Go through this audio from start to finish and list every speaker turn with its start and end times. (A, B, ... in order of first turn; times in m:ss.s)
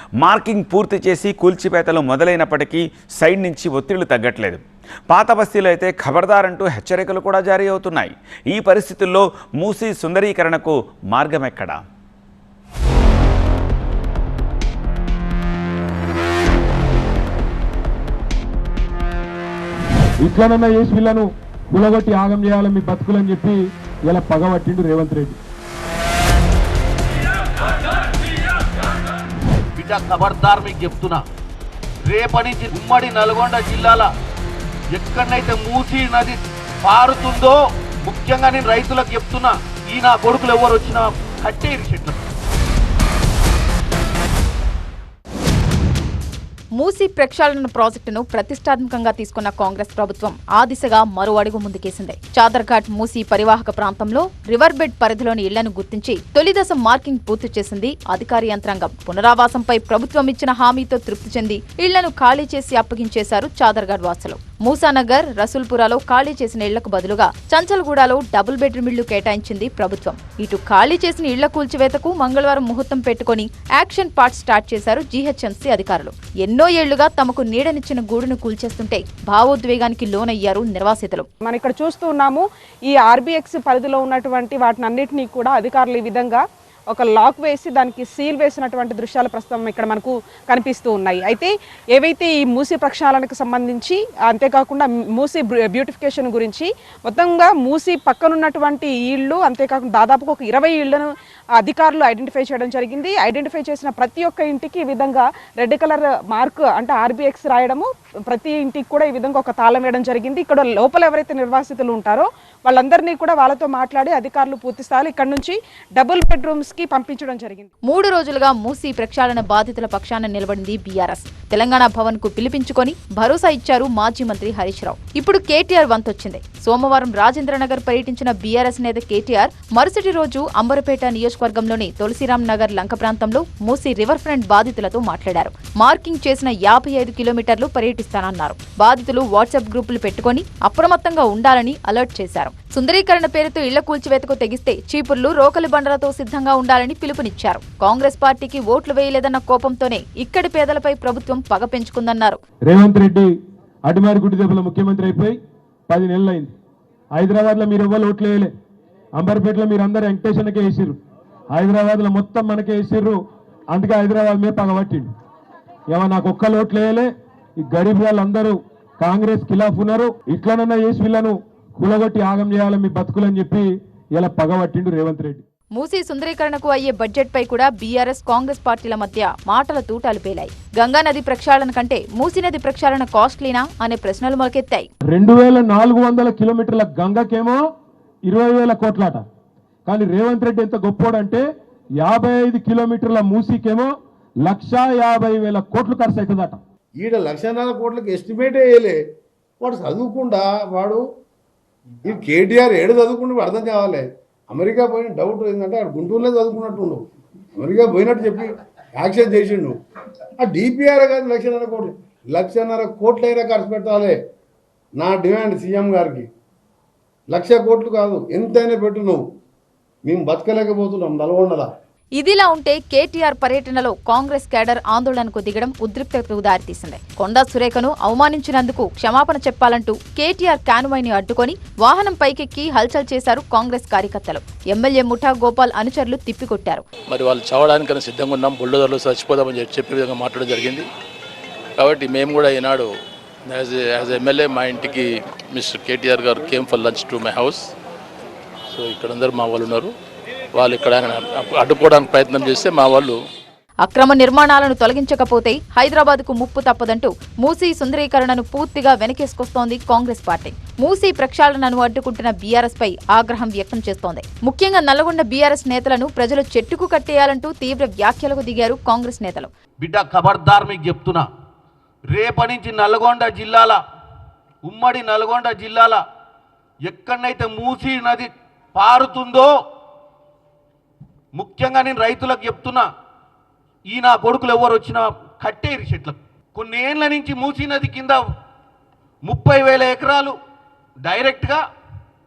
0:00.2-0:11.8 A
0:20.2-0:25.4 B
0:29.8-0:31.2 C
0:32.0-0:34.1 C
0:34.9-0:42.2 C
0:46.8-1:21.3 D
1:21.4-1:57.7 E
1:57.8-2:32.4 D
2:32.6-2:33.3 B
2:33.8-2:35.3 B
2:35.9-2:36.5 B
2:37.1-2:38.5 B
2:39.1-2:41.0 B
2:41.5-2:43.2 B
2:43.7-2:45.1 B
2:45.9-2:55.4 B
2:55.7-3:04.9 D
3:05.1-3:07.6 B
3:08.2-3:09.2 B
3:09.8-3:11.4 B
3:12.0-3:16.6 B
3:17.0-3:19.0 F
3:19.6-3:21.0 F
3:22.0-3:27.0 F
3:27.6-3:29.7 F
3:30.4-3:34.1 F
3:35.0-3:36.3 F
3:37.3-3:39.2 F
3:40.0-3:41.7 F
3:42.2-3:56.8 D
3:57.1-4:00.8 G
4:01.8-4:02.9 G
4:03.5-4:07.6 G
4:08.7-4:09.9 G
4:10.5-4:13.1 G
4:13.8-4:29.5 D
4:29.8-4:31.3 C
4:32.1-4:33.8 C
4:34.6-4:36.0 C
4:36.8-4:39.5 C
4:41.3-4:42.9 C
4:43.9-4:48.2 C
4:49.2-4:50.4 C
4:51.0-4:51.6 C